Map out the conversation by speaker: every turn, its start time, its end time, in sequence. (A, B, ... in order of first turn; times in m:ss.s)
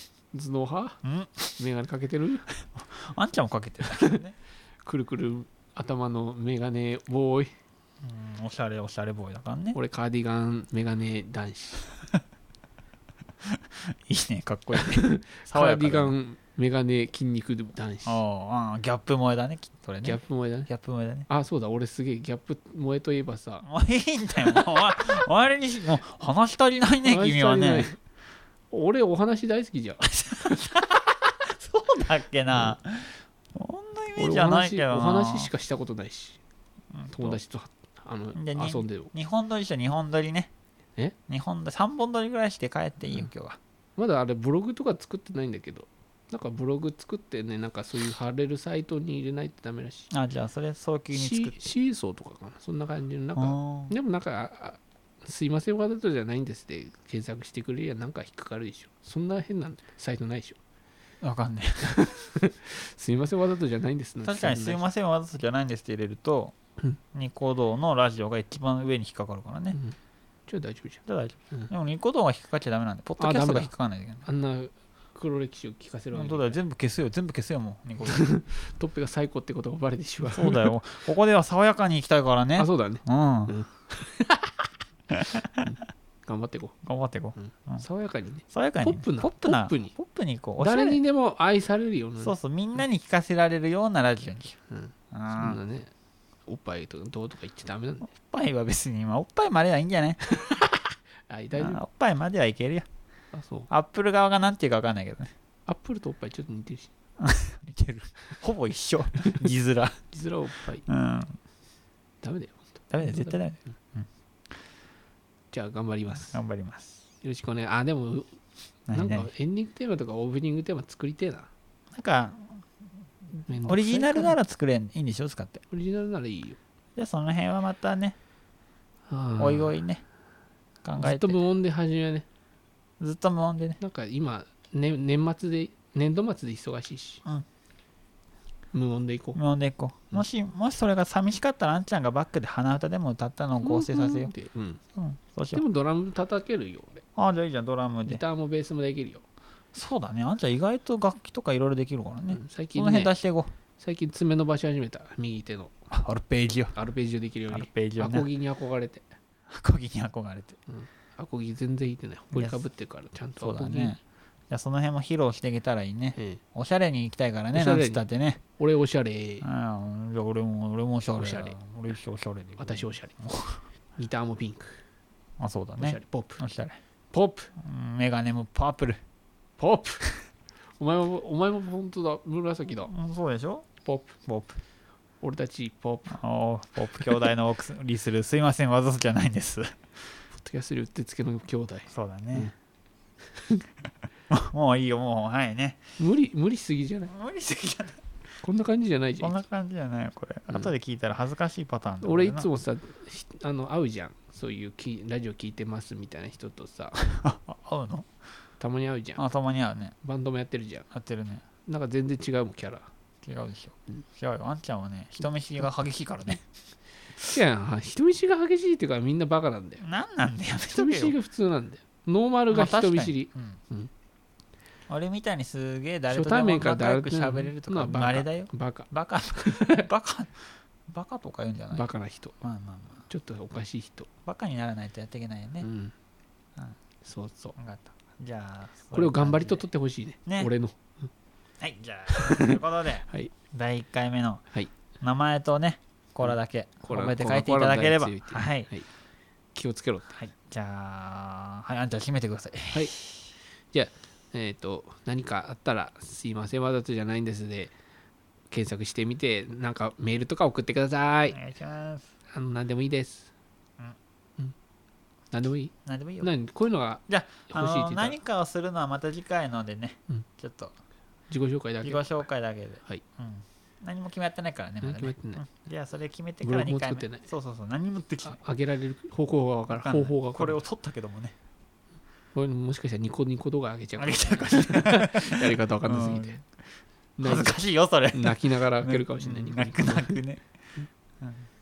0:00.3-0:01.0 A
0:01.0-0:01.6 B
0:01.6-0:02.4 A
0:02.8-0:04.4 B
0:03.9-0:04.2 A
0:04.8-0:07.5 A
0:08.0-0:09.8 B
0:09.7-0:11.8 A
0:13.5-0:16.2 B
0:14.7-0:18.2 A
0:18.1-0:21.3 B
0:20.0-0:20.7 A
0:21.3-0:23.6 A
0:23.6-0:27.9 B
0:27.0-0:28.0 A
0:28.7-0:30.5 A
0:30.0-0:35.5 B
0:34.2-0:36.4 A
0:36.9-0:37.4 B
0:37.1-0:39.1 A
0:38.4-0:40.5 B
0:41.3-0:43.6 B
0:44.0-0:50.1 A
0:50.1-0:51.6 B
0:51.1-1:00.6 A
0:53.4-0:53.9 B
1:01.2-1:02.0 B
1:01.8-1:04.8 A
1:04.2-1:06.6 B
1:07.1-1:09.8 B
1:10.5-1:11.7 A
1:11.1-1:14.3 B
1:13.2-1:13.7 A
1:14.3-1:16.6 A
1:16.1-1:18.3 B
1:18.0-1:20.7 A
1:20.3-1:23.6 B
1:22.6-1:24.7 A
1:25.1-1:25.8 B
1:25.6-1:26.8 A
1:26.8-1:27.8 B
1:27.4-1:29.9 A
1:28.5-1:31.0 B
1:30.6-1:32.4 A
1:32.2-1:34.6 B
1:34.7-1:35.9 A
1:35.1-1:35.6 B
1:36.5-1:38.1 A
1:38.1-1:40.4 B
1:41.3-1:41.8 A
1:41.6-1:42.9 B
1:43.3-1:43.7 A
1:43.7-1:45.3 B
1:45.7-1:46.9 A
1:47.2-1:50.1 B
1:50.1-1:50.9 A
1:50.9-1:51.4 B
1:52.2-1:53.4 A
1:52.9-1:54.1 B
1:55.5-1:56.4 A
1:56.3-1:56.9 B
1:57.2-1:58.3 A
1:58.9-1:59.3 B
1:58.9-2:01.5 A
2:02.0-2:02.6 B
2:03.3-2:05.6 B
2:03.5-2:04.4 A
2:05.7-2:06.6 A
2:07.0-2:08.2 B
2:09.1-2:09.7 A
2:09.4-2:10.0 B
2:10.8-2:11.4 B
2:11.0-2:12.3 A
2:13.0-2:13.8 B
2:13.8-2:17.2 A
2:18.7-2:19.4 A
2:19.4-2:24.3 B
2:23.6-2:24.8 A
2:25.0-2:25.6 B
2:25.5-2:27.0 A
2:27.2-2:28.2 B
2:28.0-2:29.2 A
2:29.7-2:33.5 B
2:32.3-2:33.2 A
2:33.8-2:35.8 A
2:35.9-2:36.8 B
2:36.8-2:39.1 A
2:37.5-2:38.3 B
2:39.5-2:40.6 B
2:40.7-2:44.0 A
2:42.3-2:42.6 B
2:43.4-2:48.4 B
2:47.5-2:48.0 A
2:48.6-2:49.5 A
2:49.4-2:53.6 B
2:51.2-2:51.6 A
2:52.6-2:53.2 A
2:54.0-2:54.8 A
2:55.4-2:56.8 B
2:55.8-2:56.4 A
2:57.1-2:57.5 A
2:57.6-2:59.0 B
2:59.6-3:00.0 A
3:00.8-3:02.9 A
3:02.9-3:03.7 B
3:03.8-3:04.2 A
3:04.3-3:04.6 B
3:05.2-3:06.2 A
3:06.1-3:09.8 B
3:10.3-3:12.5 A
3:11.9-3:12.5 B
3:13.3-3:13.6 A
3:14.3-3:15.8 B
3:16.0-3:17.1 A
3:17.1-3:18.0 B
3:18.4-3:19.3 A
3:19.2-3:22.5 B
3:22.0-3:27.0 A
3:27.0-3:28.1 B
3:28.6-3:29.2 A
3:29.2-3:29.9 B
3:30.0-3:30.9 A
3:30.9-3:31.4 B
3:31.7-3:32.9 A
3:33.2-3:36.4 B
3:37.2-3:39.8 A
3:39.8-3:41.2 B
3:40.7-3:43.9 A
3:42.5-3:43.6 B
3:44.9-3:51.9 B
3:46.1-3:49.9 A
3:51.7-3:52.4 A
3:52.4-3:53.1 B
3:53.1-3:54.1 A
3:54.2-3:55.7 B
3:55.6-3:55.9 A
3:57.0-3:57.6 A
3:57.6-3:59.7 B
3:58.9-4:01.1 A
4:00.3-4:00.5 B
4:01.6-4:04.4 B
4:02.1-4:03.3 A
4:05.0-4:08.7 B
4:06.2-4:08.9 A
4:09.6-4:10.2 A
4:10.1-4:13.2 B
4:13.7-4:17.7 A
4:18.5-4:21.4 A
4:21.3-4:22.1 B
4:22.3-4:23.3 A
4:25.3-4:28.2 A
4:25.9-4:26.3 B
4:27.1-4:30.7 B
4:31.3-4:32.0 A
4:31.8-4:38.4 B
4:34.8-4:35.4 A
4:36.4-4:37.2 A
4:38.2-4:40.6 A
4:39.7-4:41.3 B
4:42.4-4:46.4 A
4:44.0-4:46.4 B
4:47.2-4:47.6 A
4:47.2-4:50.4 B
4:48.1-4:50.2 A
4:51.2-4:51.5 B